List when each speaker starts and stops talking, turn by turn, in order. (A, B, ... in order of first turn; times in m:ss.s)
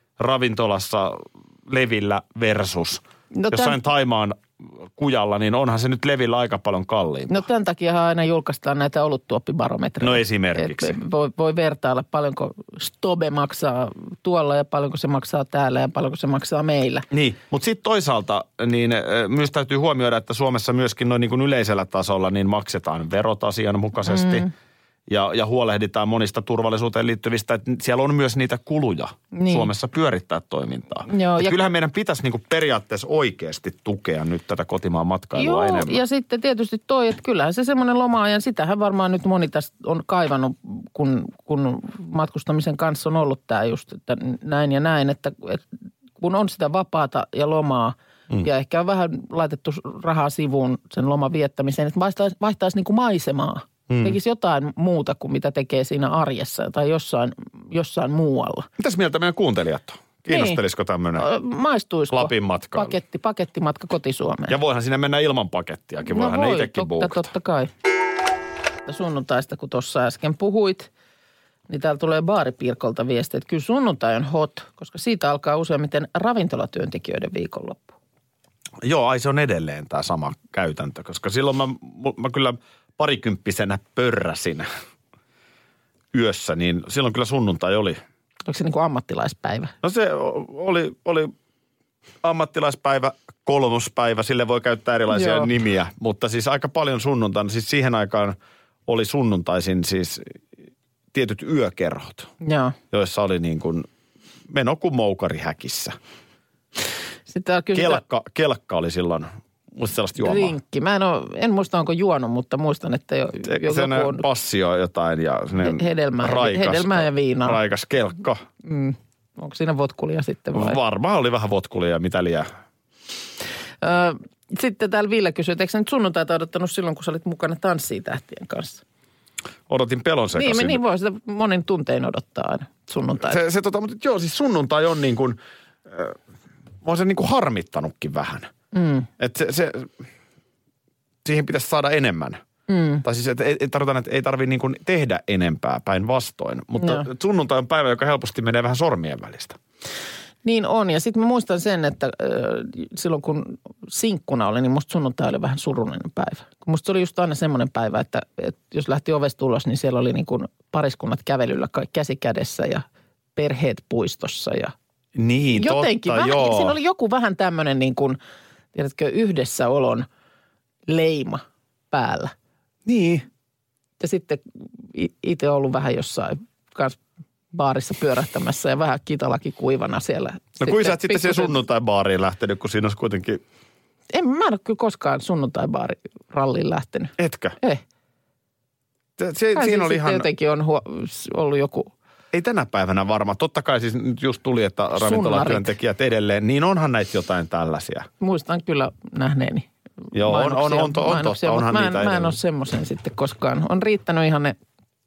0:00.2-0:07.4 A
0:03.3-0:03.8 B
0:07.3-0:17.1 B
0:10.0-0:11.0 A
0:17.1-0:24.5 A
0:24.0-0:24.5 B
0:25.1-0:36.0 A
0:29.3-0:29.7 B
0:31.1-0:31.6 B
0:35.3-0:45.6 B
0:46.2-0:58.7 B
0:53.9-0:54.2 A
0:58.8-1:01.3 A
1:00.3-1:00.6 B
1:01.2-1:04.6 B
1:02.1-1:03.0 A
1:04.5-1:07.3 A
1:06.1-1:07.7 B
1:08.8-1:10.9 B
1:11.7-1:17.9 B
1:18.8-1:24.7 A
1:26.1-1:28.0 A
1:28.5-1:29.7 B
1:29.8-1:31.3 A
1:32.2-1:38.4 A
1:35.1-1:35.5 B
1:38.9-1:40.4 A
1:41.1-1:42.3 A
1:42.4-1:42.8 B
1:42.9-1:43.9 A
1:44.5-1:46.0 A
1:47.3-1:48.0 B
1:47.7-1:50.5 A
1:50.2-1:54.2 B
1:53.4-1:58.4 A
1:55.6-1:57.6 B
1:58.6-2:00.8 B
2:00.5-2:02.5 A
2:03.8-2:08.8 B
2:09.7-2:10.8 A
2:10.3-2:13.4 B
2:13.2-2:16.2 A
2:16.8-2:18.5 A
2:18.7-2:19.1 B
2:19.2-2:19.9 A
2:21.2-2:22.4 A
2:22.7-2:23.0 B
2:23.0-2:29.6 A
2:26.8-2:27.1 B
2:30.4-2:42.8 B
2:43.4-2:44.7 B
2:45.1-2:46.8 A
2:45.5-2:48.2 B
2:48.7-2:50.0 B
2:50.9-2:52.3 B
2:52.8-2:53.2 A
2:54.0-2:57.0 B
2:57.5-3:01.6 B
3:00.6-3:03.4 A
3:04.1-3:07.8 B
3:07.2-3:07.6 A
3:09.2-3:10.3 A
3:09.5-3:11.9 B
3:12.3-3:18.1 A
3:15.0-3:15.7 B
3:18.2-3:24.6 B
3:20.1-3:22.4 A